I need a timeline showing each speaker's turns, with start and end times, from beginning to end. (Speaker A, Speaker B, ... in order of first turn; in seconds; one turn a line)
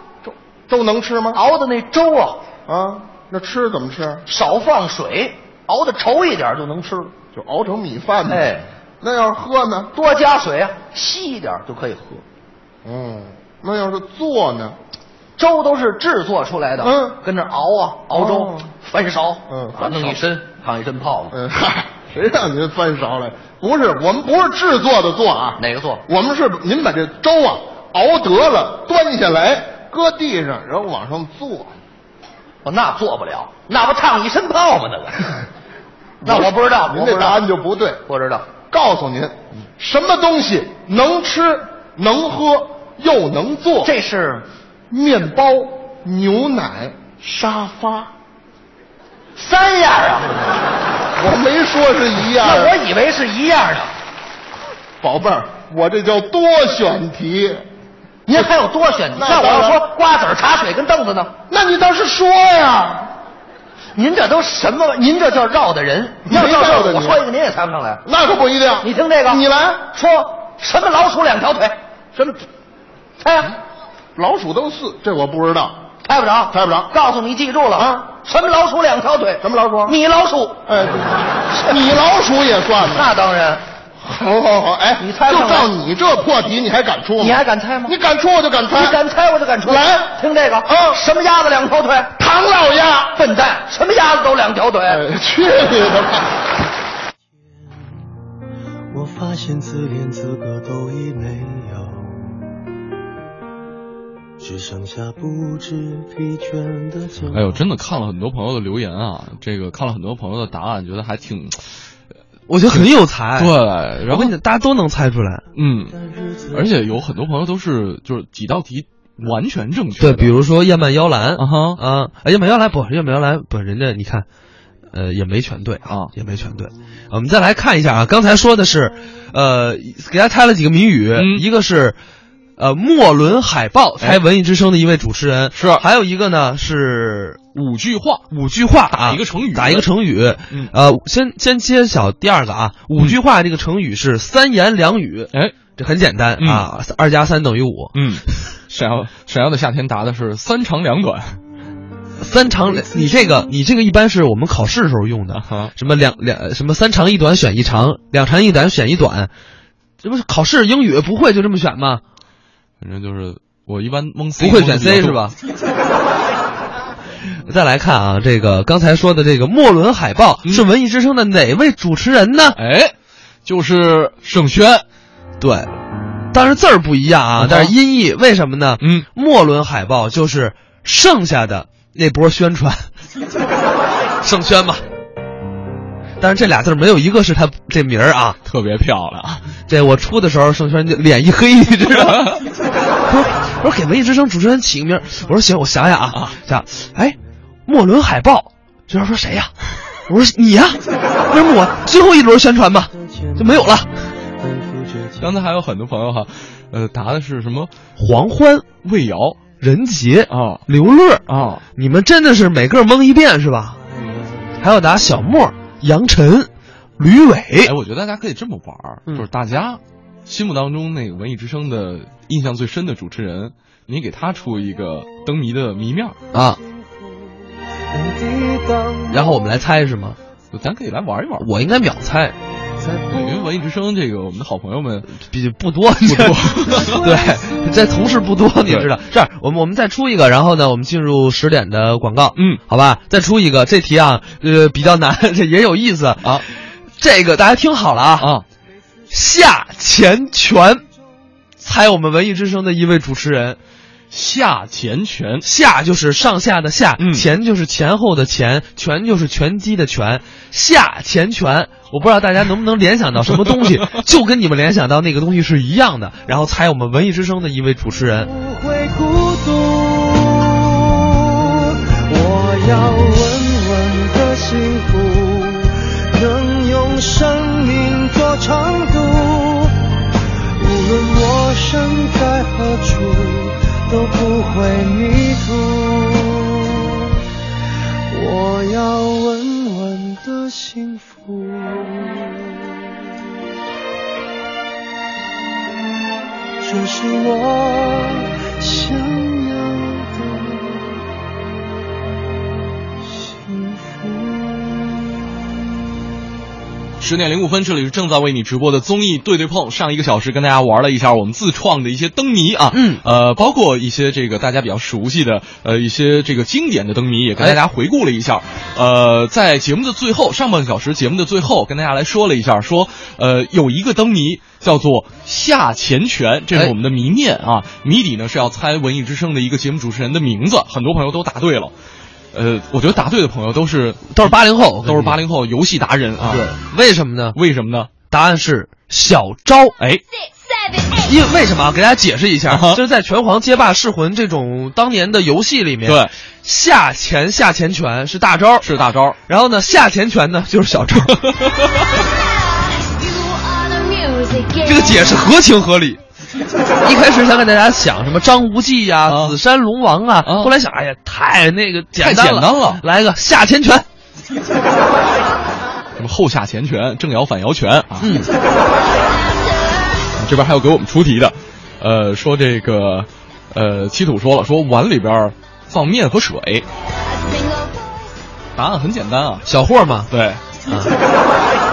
Speaker A: 0.2-1.4
Speaker B: 1.3-2.4
Speaker A: 2.7-4.2
Speaker B: 4.3-7.1
Speaker A: 7.3-8.5
Speaker B: 8.3-8.7
Speaker A: 9.0-9.9
Speaker B: 9.9-12.2
Speaker A: 12.8-14.8
Speaker B: 15.4-21.3
Speaker A: 16.8-17.2
Speaker A: 18.1-18.7
Speaker A: 19.5-20.2
Speaker A: 21.3-31.7
Speaker B: 25.6-26.0
Speaker B: 32.6-35.2
Speaker A: 36.2-43.9
Speaker B: 36.2-37.4
Speaker B: 38.1-38.5
Speaker B: 43.8-44.4
Speaker A: 44.9-48.1
Speaker B: 49.4-50.4
Speaker A: 51.2-52.8
Speaker B: 52.4-53.9
Speaker A: 55.0-57.6
Speaker B: 58.3-61.3
Speaker A: 59.1-59.9
Speaker A: 61.5-63.1
Speaker B: 63.9-68.0
Speaker A: 66.2-67.2
Speaker A: 68.0-69.9
Speaker B: 68.8-69.4
Speaker B: 69.9-71.8
Speaker A: 72.2-72.4
Speaker B: 73.2-73.5
Speaker A: 74.2-75.8
Speaker B: 76.0-80.6
Speaker A: 76.5-76.9
Speaker A: 77.7-78.1
Speaker A: 79.4-80.0
Speaker A: 80.7-83.1
Speaker B: 82.9-83.6
Speaker A: 84.0-89.0
Speaker B: 85.0-85.7
Speaker B: 87.2-87.9
Speaker B: 88.7-92.1
Speaker A: 89.6-91.0
Speaker A: 92.2-93.2
Speaker B: 93.1-95.0
Speaker A: 94.9-96.3
Speaker C: 98.9-102.3
Speaker C: 104.4-107.6
Speaker D: 107.3-111.8
Speaker E: 112.5-113.5
Speaker D: 112.7-114.3
Speaker E: 114.0-115.4
Speaker D: 115.5-116.0
Speaker C: 115.9-116.9
Speaker D: 116.5-120.4
Speaker E: 120.0-124.3
Speaker D: 121.4-121.8
Speaker E: 124.9-132.0
Speaker D: 131.1-131.4
Speaker E: 132.6-137.6
Speaker D: 135.5-135.8
Speaker D: 137.6-138.2
Speaker E: 138.3-148.5
Speaker D: 138.9-139.9
Speaker D: 146.4-146.7
Speaker D: 147.9-151.4
Speaker E: 152.2-159.3
Speaker D: 155.3-155.7
Speaker E: 160.0-162.0
Speaker D: 162.8-165.3
Speaker E: 164.4-165.3
Speaker E: 167.4-172.6
Speaker D: 172.6-172.9
Speaker D: 173.4-174.8
Speaker E: 175.4-175.7
Speaker E: 176.3-182.9
Speaker D: 177.4-177.7
Speaker D: 178.8-179.1
Speaker E: 184.2-184.8
Speaker E: 186.2-188.4
Speaker D: 188.4-189.4
Speaker E: 189.7-192.3
Speaker D: 192.0-192.4
Speaker E: 193.1-199.5
Speaker E: 200.1-203.9
Speaker C: 202.9-205.4
Speaker D: 205.2-207.7
Speaker E: 208.0-208.7
Speaker D: 208.8-209.4
Speaker E: 209.6-211.2
Speaker D: 210.3-210.6
Speaker D: 211.3-211.6
Speaker E: 211.8-213.8
Speaker C: 213.8-214.6
Speaker E: 214.6-217.7
Speaker D: 217.6-226.2
Speaker E: 226.3-226.6
Speaker C: 226.3-229.4
Speaker E: 229.1-230.2
Speaker D: 230.5-231.5
Speaker E: 231.4-232.3
Speaker C: 232.8-233.5
Speaker D: 233.1-235.1
Speaker E: 235.2-248.3
Speaker D: 236.0-237.0
Speaker C: 236.6-238.0
Speaker D: 242.3-242.6
Speaker E: 249.1-250.8
Speaker E: 251.6-253.6
Speaker D: 254.1-255.4
Speaker E: 255.4-268.3
Speaker D: 257.0-257.2
Speaker C: 268.2-279.7
Speaker C: 280.6-287.1
Speaker C: 288.1-292.7
Speaker C: 296.6-301.0
Speaker C: 303.0-305.1
Speaker D: 307.0-331.7
Speaker E: 312.7-313.0
Speaker D: 332.3-336.5
Speaker E: 334.1-335.2
Speaker E: 336.2-337.4
Speaker D: 337.3-337.9
Speaker E: 338.1-339.7
Speaker E: 341.0-348.7
Speaker D: 342.5-342.8
Speaker D: 345.9-346.1
Speaker D: 348.6-349.1
Speaker E: 349.3-351.1
Speaker D: 351.2-351.7
Speaker E: 354.6-356.0
Speaker E: 356.8-363.9
Speaker D: 359.1-359.4
Speaker D: 360.2-360.5
Speaker D: 362.0-362.8
Speaker D: 366.0-368.1
Speaker E: 368.0-368.3
Speaker D: 370.2-376.6
Speaker D: 378.6-379.4
Speaker E: 379.4-380.1
Speaker D: 380.1-380.4
Speaker E: 380.7-380.9